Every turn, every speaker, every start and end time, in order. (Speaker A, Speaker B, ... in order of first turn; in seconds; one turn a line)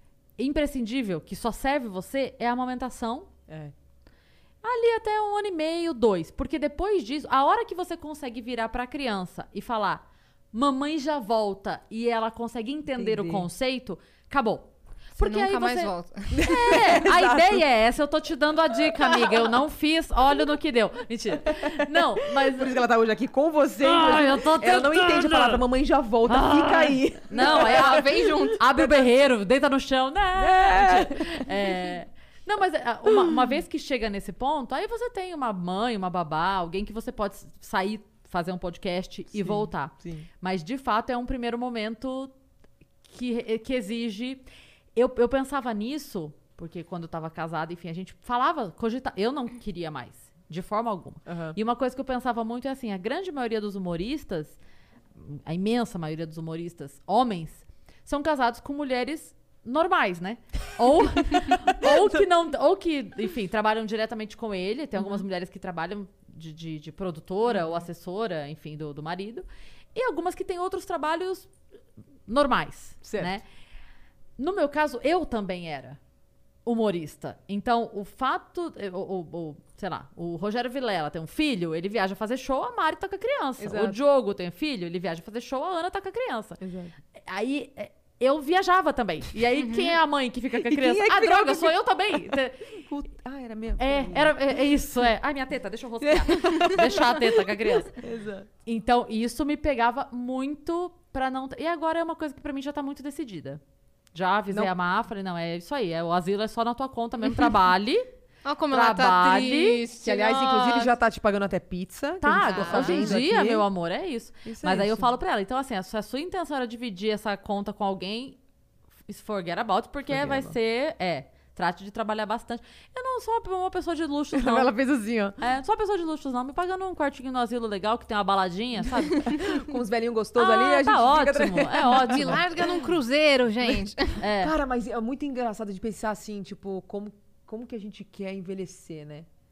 Speaker A: 0.4-3.3
Speaker B: 3.5-3.7
Speaker A: 4.6-22.7
Speaker B: 12.9-13.5
Speaker C: 15.2-16.8
Speaker B: 16.3-17.6
Speaker B: 21.4-28.4
Speaker A: 23.8-25.6
Speaker A: 26.3-42.3
Speaker C: 27.3-29.0
Speaker B: 30.3-31.5
Speaker B: 33.1-33.5
Speaker B: 39.3-40.3
Speaker A: 43.0-44.4
Speaker A: 44.9-54.6
Speaker B: 51.2-51.6
Speaker A: 55.1-71.5
Speaker B: 61.6-62.2
Speaker B: 67.5-67.9
Speaker A: 72.3-73.4
Speaker B: 73.0-73.4
Speaker A: 74.4-76.0
Speaker A: 76.6-86.6
Speaker B: 83.6-84.0
Speaker B: 86.6-86.9
Speaker A: 87.2-92.8
Speaker C: 89.5-90.0
Speaker B: 90.5-95.0
Speaker A: 93.8-98.0
Speaker B: 96.0-98.5
Speaker A: 98.7-103.6
Speaker A: 104.1-108.0
Speaker C: 108.4-110.9
Speaker A: 108.7-109.8
Speaker B: 110.0-113.7
Speaker A: 112.2-118.4
Speaker C: 112.4-113.3
Speaker B: 114.4-115.1
Speaker A: 119.1-124.7
Speaker B: 120.1-120.5
Speaker B: 124.3-125.4
Speaker A: 125.4-129.5
Speaker B: 129.1-132.9
Speaker A: 130.4-132.4
Speaker C: 131.9-134.2
Speaker A: 134.2-134.5
Speaker B: 134.3-139.3